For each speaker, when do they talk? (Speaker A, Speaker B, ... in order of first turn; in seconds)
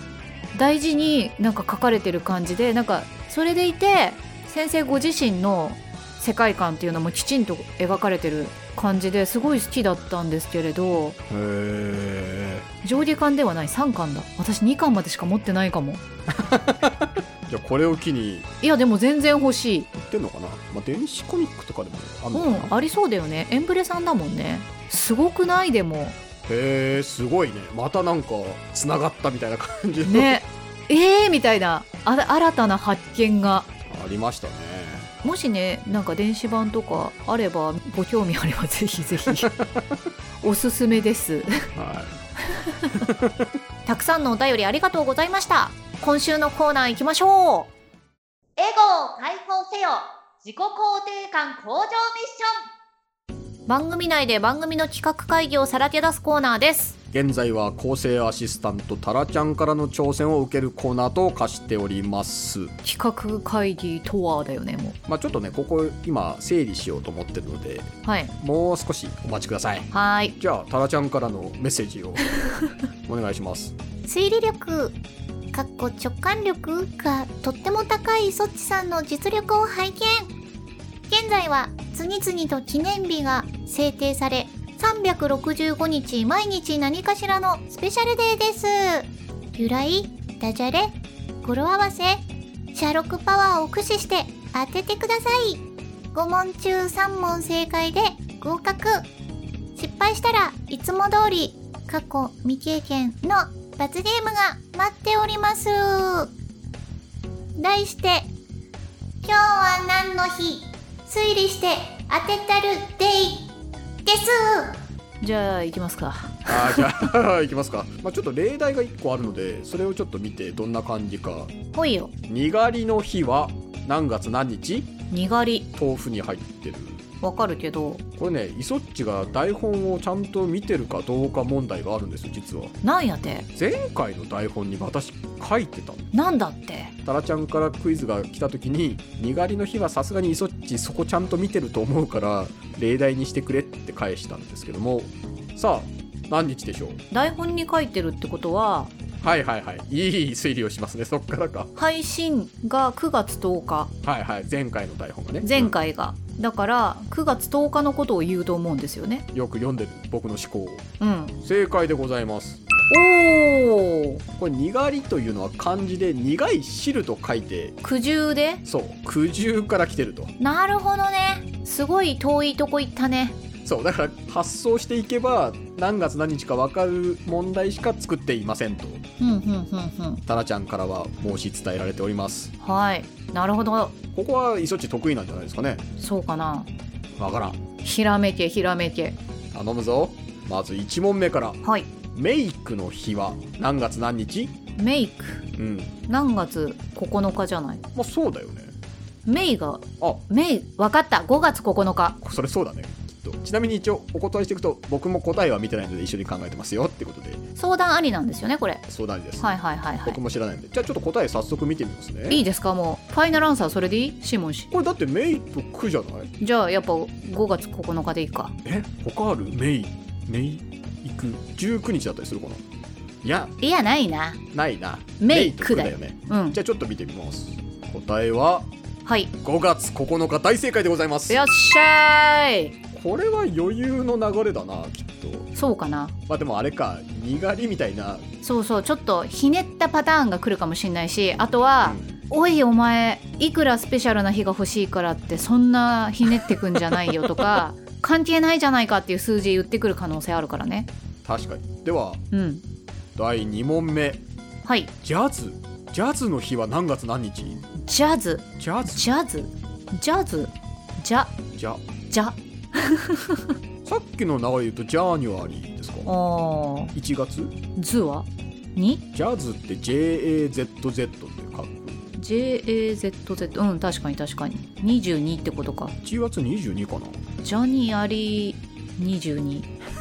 Speaker A: 0.5-11.2, 12.8-16.0, 18.6-19.9, 22.3-26.2, 30.0-33.7, 35.2-39.5, 40.4-41.7, 42.5-43.0, 43.9-47.7, 53.7-56.9, 62.8-65.0, 68.0-68.3, 69.9-70.3, 81.8-82.5, 83.5-87.9, 115.2-117.0, 121.7-122.1, 125.1-125.7, 127.2-128.0, 132.8-133.5, 136.1-136.9, 147.1-148.9, 151.8-153.9, 155.4-159.2, 161.0-161.3, 162.9-164.2, 167.8-168.6, 170.4-173.3, 179.2-180.2, 182.6-183.9, 186.0-186.7, 187.8-189.2, 191.6-191.9, 194.8-195.4, 196.1-197.8, 199.2-202.2, 207.6-208.8, 209.4-210.2, 212.3-214.7, 216.4-218.5, 223.6-224.4, 225.2-226.6, 229.0-229.3, 231.3-232.8, 235.5-236.1, 238.4-250.9, 252.3-252.6, 254.6-254.9, 257.8-261.4, 262.1-263.5, 266.1-266.9, 267.8-269.0, 272.2-275.9, 277.4-279.7
Speaker B: 11.3-12.7, 16.3-18.5, 19.9-22.7, 26.4-30.4, 33.9-35.1, 39.2-40.0, 41.8-42.2, 42.9-43.5, 57.1-62.7, 65.1-72.2, 73.0-73.8, 116.5-121.5, 122.3-124.9, 125.7-127.0, 128.2-132.8, 133.6-136.1, 137.0-147.0, 149.2-151.7, 154.0-155.7, 159.3-160.8, 161.4-162.6, 164.4-167.8, 168.6-170.3, 173.6-179.0, 180.3-182.5, 184.1-185.8, 187.2-187.6, 189.5-191.6, 192.1-194.5, 195.6-195.9, 197.9-198.8, 202.2-207.4, 208.9-209.5, 210.0-212.4, 214.7-216.3, 218.6-222.6, 223.2-223.5, 224.5-228.7, 229.4-231.4, 232.9-235.5, 236.3-238.2, 241.8-242.1, 246.3-247.6, 251.2-252.2, 253.2-254.2, 255.0-257.6, 258.6-259.1, 261.6-261.8, 263.8-266.1, 266.9-267.5, 269.1-272.0, 276.0-277.2
Speaker C: 48.6-52.5, 74.1-74.9, 75.5-80.3, 81.1-82.0, 82.7-83.6, 87.7-90.9, 91.4-92.2, 92.7-95.6, 96.1-99.0, 99.8-106.3, 107.6-108.3, 109.2-113.5, 114.0-114.8